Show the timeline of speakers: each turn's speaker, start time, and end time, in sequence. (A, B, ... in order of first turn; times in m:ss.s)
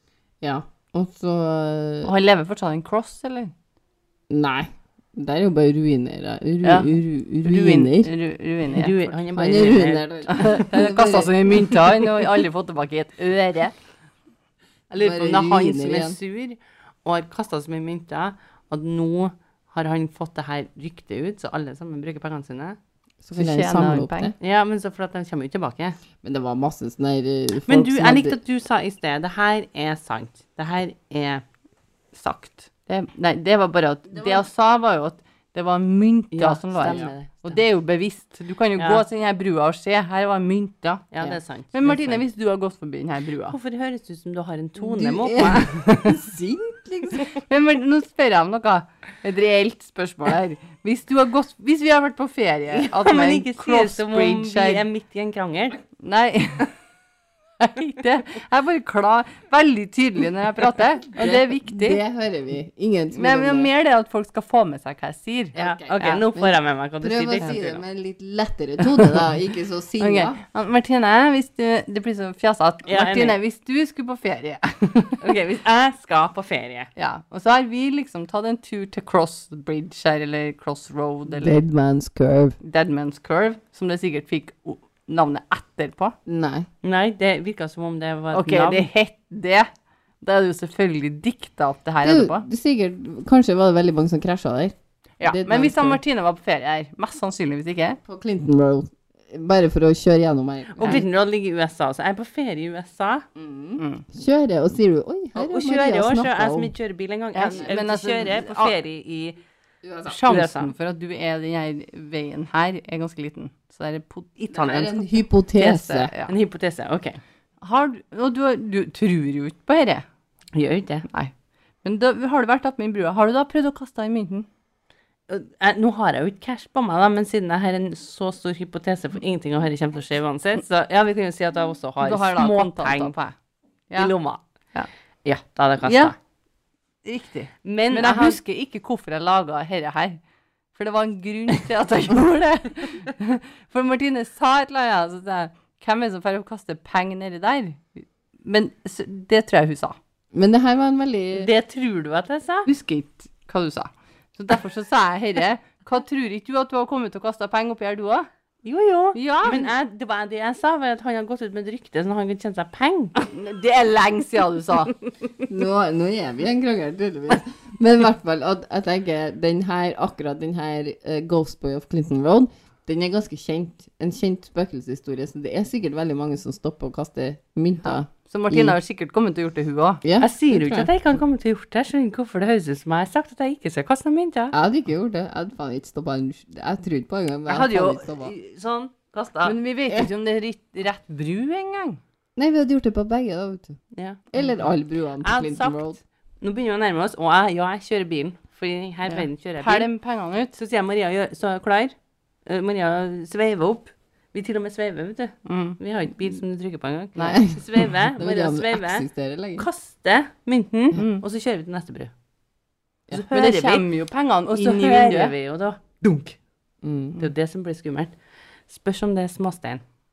0:00.4-0:02.1 A
0:02.0-0:03.5 B
0:04.3-0:08.1 A
0:07.4-0:09.1 B
0:08.7-0:10.3 C
0:09.3-0:12.0 A
0:10.3-0:13.7 B
0:14.9-0:22.8 C
0:15.0-0:16.2 A
0:23.2-0:24.3 A
0:23.3-0:24.3 B
0:24.4-0:26.0 C
0:26.2-0:28.4 A
0:27.7-0:31.4 C
0:32.1-0:41.1 B
0:36.4-0:37.6 C
0:36.6-0:37.1 A
0:38.8-0:39.0 C
0:41.1-0:42.2 C
0:41.7-0:43.6 B
0:43.5-0:45.7 C
0:44.8-0:47.3 A
0:45.4-0:46.2 B
0:47.2-0:54.8 B
0:52.7-0:55.8 C
0:56.0-0:56.7 B
0:57.6-1:02.0 B
1:01.2-1:03.7 A
1:03.1-1:05.6 B
1:05.5-1:07.8 C
1:05.5-1:10.4 A
1:10.0-1:15.4 B
1:12.8-1:13.4 C
1:15.2-1:16.9 C
1:17.0-1:21.6 B
1:21.3-1:22.6 A
1:22.6-1:26.1 B
1:26.2-1:26.7 A
1:26.8-1:28.9 C
1:28.3-1:29.7 B
1:30.2-1:32.4 B
1:32.0-1:36.0 A
1:35.2-1:38.0 B
1:38.0-1:41.0 A
1:40.8-1:43.2 C
1:43.4-1:46.7 A
1:45.3-1:49.4 C
1:47.3-1:48.8 B
1:49.8-1:50.2 A
1:50.1-1:56.3 B
1:50.2-1:50.7 C
1:54.5-1:54.8 C
1:54.5-1:56.1 A
1:56.3-1:57.2 C
1:57.6-2:00.0 B
2:00.5-2:01.0 C
2:01.8-2:04.4 B
2:05.3-2:13.2 C
2:12.0-2:13.3 B
2:14.0-2:14.4 C
2:15.2-2:16.1 C
2:15.8-2:16.1 B
2:17.0-2:20.2 B
2:17.6-2:18.4 C
2:20.7-2:30.0 B
2:30.3-2:31.5 A
2:31.3-2:32.7 C
2:32.6-2:38.3 B
2:38.6-2:43.1 C
2:39.1-2:39.7 B
2:43.2-2:44.9 B
2:45.5-2:58.8 A
2:57.8-3:00.8 B
3:00.0-3:00.3 A
3:00.2-3:04.5 C
3:04.5-3:08.3 A
3:07.5-3:09.6 C
3:09.4-3:12.0 B
3:12.4-3:13.8 A
3:13.9-3:14.3 C
3:14.3-3:16.0 A
3:15.2-3:15.9 C
3:16.4-3:19.9 C
3:19.6-3:20.5 B
3:20.5-3:29.0 C
3:25.4-3:25.8 B
3:27.2-3:29.7 A
3:29.6-3:32.1 C
3:30.9-3:31.2 B
3:33.1-3:33.9 C
3:33.1-3:35.3 B
3:34.5-3:36.4 C
3:36.8-3:37.3 A
3:37.2-3:38.1 C
3:38.7-3:39.8 C